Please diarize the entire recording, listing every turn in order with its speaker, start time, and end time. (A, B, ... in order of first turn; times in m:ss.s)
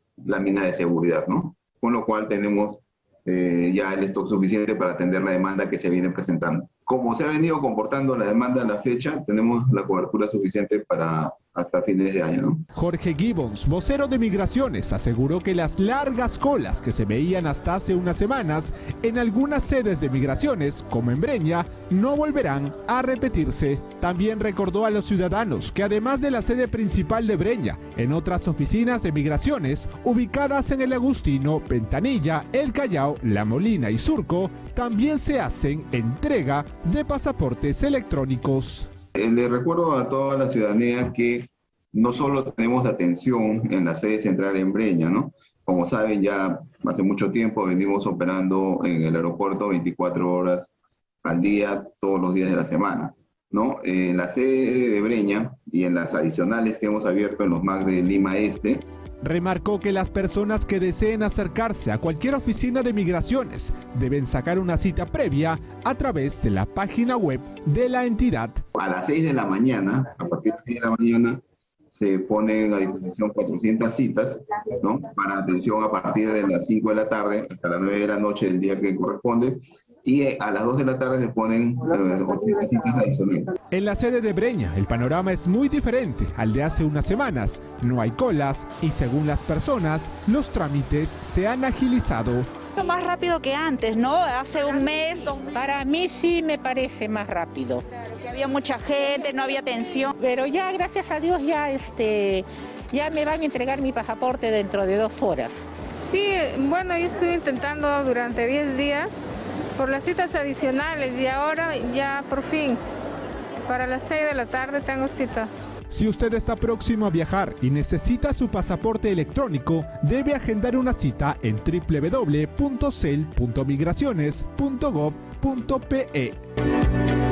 0:00.2-0:12.6 A
0:12.7-0:38.9 B
0:39.2-0:50.7 A
0:51.2-0:58.8 A
0:59.2-1:08.6 B
1:08.8-1:11.4 A
1:11.9-1:23.5 A
1:23.7-1:32.5 B
1:32.8-1:35.5 C
1:35.5-1:37.8 D
1:38.1-1:40.1 C
1:40.2-1:45.6 D
1:45.9-1:49.2 E
1:49.8-1:52.8 E
1:53.6-1:55.5 E
1:55.9-2:06.4 B